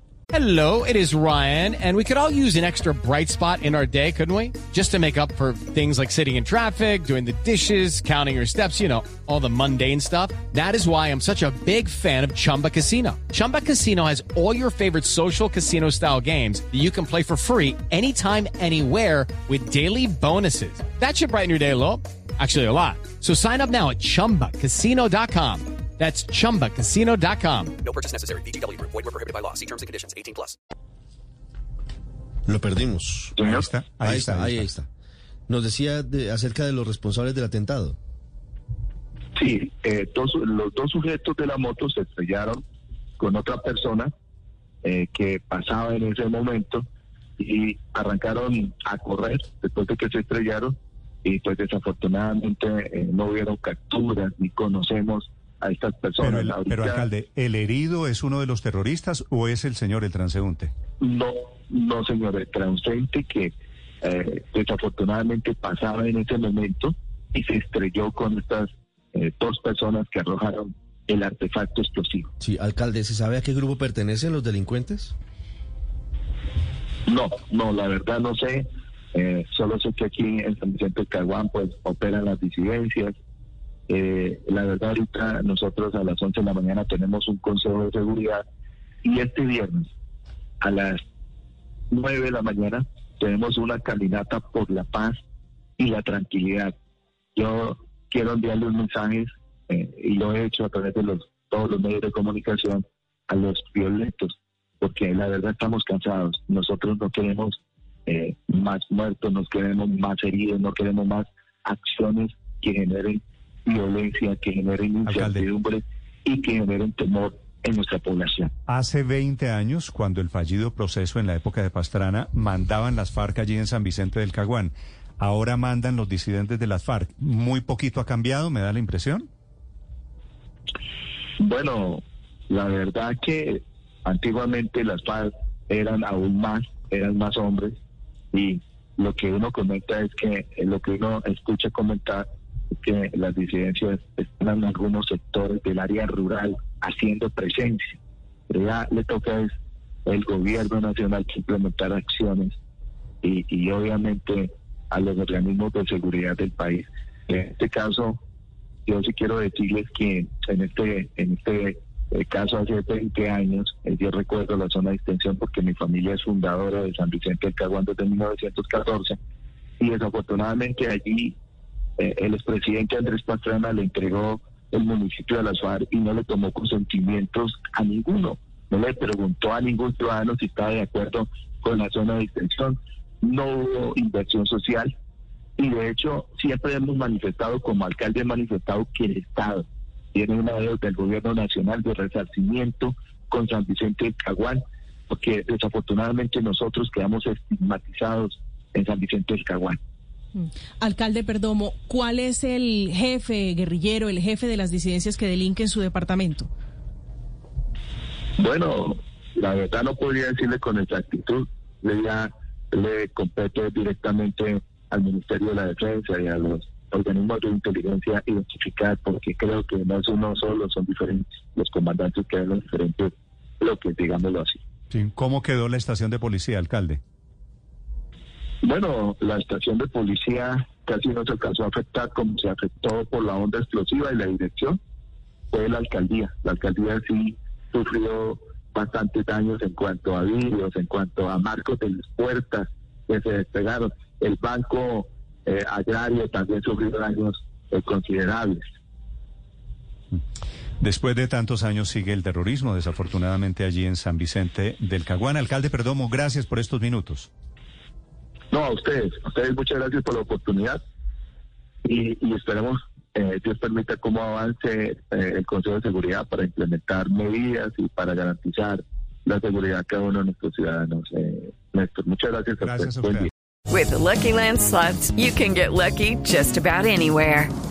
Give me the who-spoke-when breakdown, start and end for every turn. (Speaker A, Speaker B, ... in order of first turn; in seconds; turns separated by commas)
Speaker A: 0.3-27.7, Speaker B: 27.8-30.5, Speaker C: 32.5-33.4, Speaker D: 33.4-33.7, Speaker E: 33.4-34.7, Speaker C: 34.0-34.9, Speaker C: 35.5-38.0, Speaker D: 39.4-42.6, Speaker D: 43.2-44.1, Speaker D: 44.8-46.8, Speaker D: 47.4-57.1, Speaker E: 56.2-60.7, Speaker D: 61.0-72.3, Speaker C: 72.4-75.1, Speaker D: 77.1-83.2, Speaker D: 83.9-88.4, Speaker D: 89.0-89.9, Speaker D: 90.6-91.0, Speaker D: 91.9-95.2, Speaker D: 95.8-96.7, Speaker D: 97.3-118.5, Speaker E: 115.1-115.5, Speaker E: 118.7-129.3, Speaker D: 131.4-137.8, Speaker D: 138.3-148.0, Speaker D: 148.5-149.5, Speaker D: 150.1-152.6, Speaker D: 153.2-158.2, Speaker D: 158.9-169.2, Speaker D: 169.8-171.4, Speaker D: 172.0-184.9, Speaker D: 185.6-199.8, Speaker F: 200.8-206.5, Speaker D: 208.4-224.6, Speaker E: 224.9-227.0, Speaker D: 228.6-234.8, Speaker D: 235.5-248.6, Speaker E: 250.8-257.3, Speaker D: 258.5-260.8, Speaker D: 261.8-273.3, Speaker E: 272.6-273.3, Speaker G: 273.7-277.5